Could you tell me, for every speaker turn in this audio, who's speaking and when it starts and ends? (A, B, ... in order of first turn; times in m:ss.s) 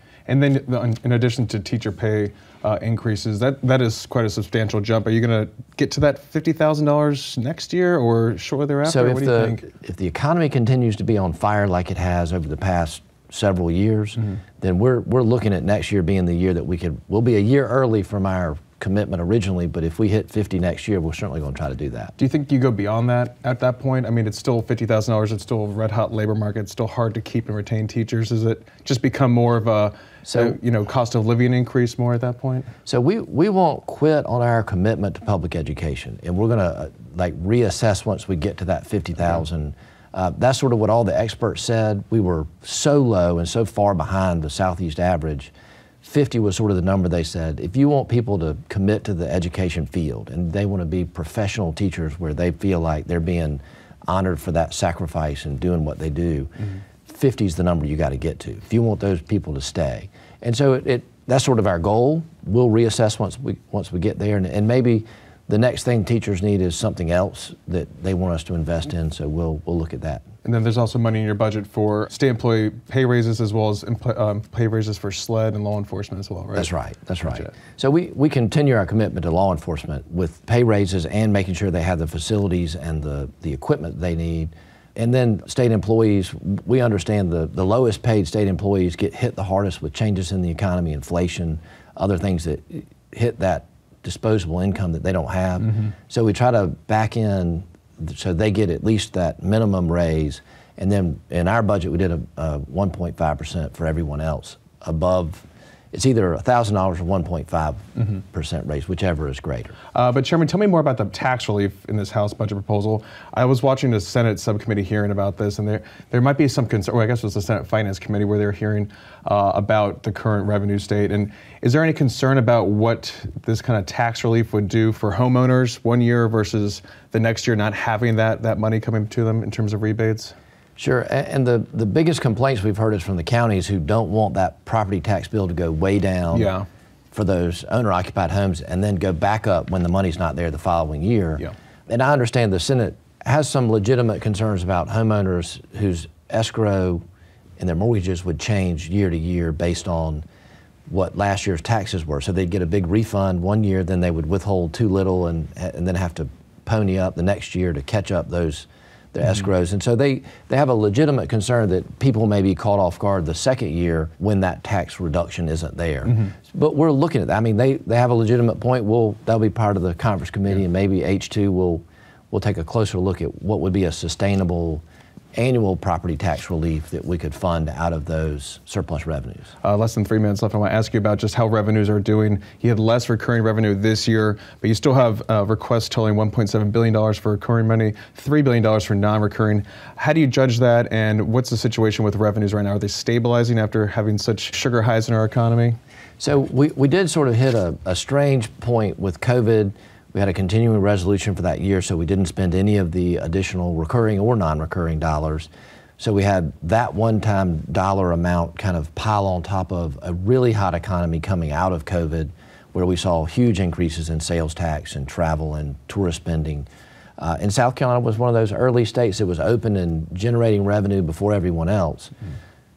0:00.3-0:09.6 A
0:08.8-0:22.2 B
0:22.2-0:32.7 A
0:30.3-0:30.6 B
0:32.9-1:10.3 B
1:10.4-1:16.7 A
1:16.5-1:49.8 B
1:17.3-1:17.5 A
1:35.6-1:35.9 A
1:48.0-1:48.2 A
1:50.0-2:10.4 A
2:10.8-2:16.5 B
2:16.3-2:16.7 A
2:17.1-2:27.0 B
2:27.6-2:30.2 B
2:30.9-2:59.5 B
2:46.1-2:46.3 A
2:59.6-3:15.8 A
3:16.2-3:36.7 B
3:37.2-3:42.1 B